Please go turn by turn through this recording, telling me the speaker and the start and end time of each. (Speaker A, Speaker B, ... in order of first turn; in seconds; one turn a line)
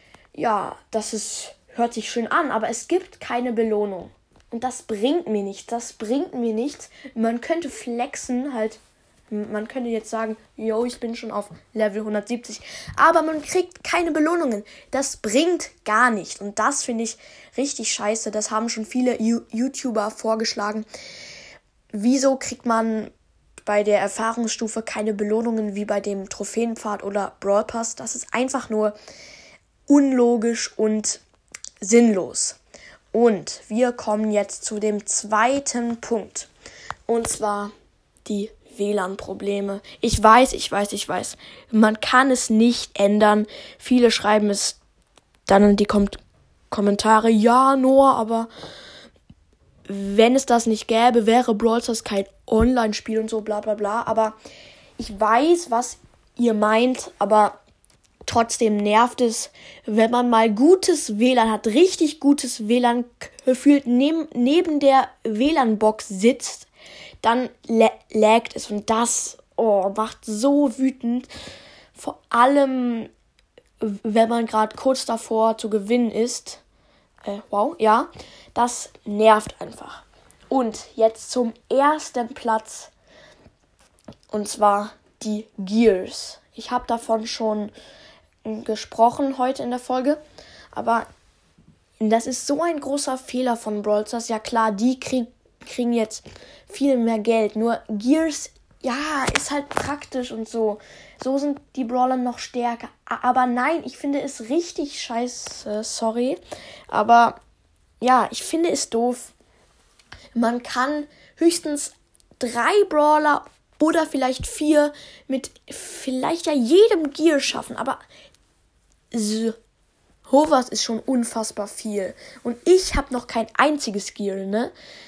Speaker A: 0.3-20.9
Speaker A: 21.9-28.9
Speaker A: 29.9-31.2
Speaker A: 31.8-32.6
Speaker A: 33.1-36.5
Speaker A: 37.1-37.7
Speaker A: 38.2-44.8
Speaker A: 45.5-46.2
Speaker A: 46.7-48.5
Speaker A: 49.9-54.4
Speaker A: 55.0-57.6
Speaker A: 58.2-66.7
Speaker A: 67.2-71.3
Speaker A: 71.9-73.1
Speaker A: 73.8-76.6
Speaker A: 77.2-82.9
Speaker A: 84.3-87.7
Speaker A: 88.4-90.2
Speaker A: 90.7-91.0
Speaker A: 92.0-107.4
Speaker A: 108.0-109.3
Speaker A: 110.3-118.0
Speaker A: 119.1-119.5
Speaker A: 120.3-124.7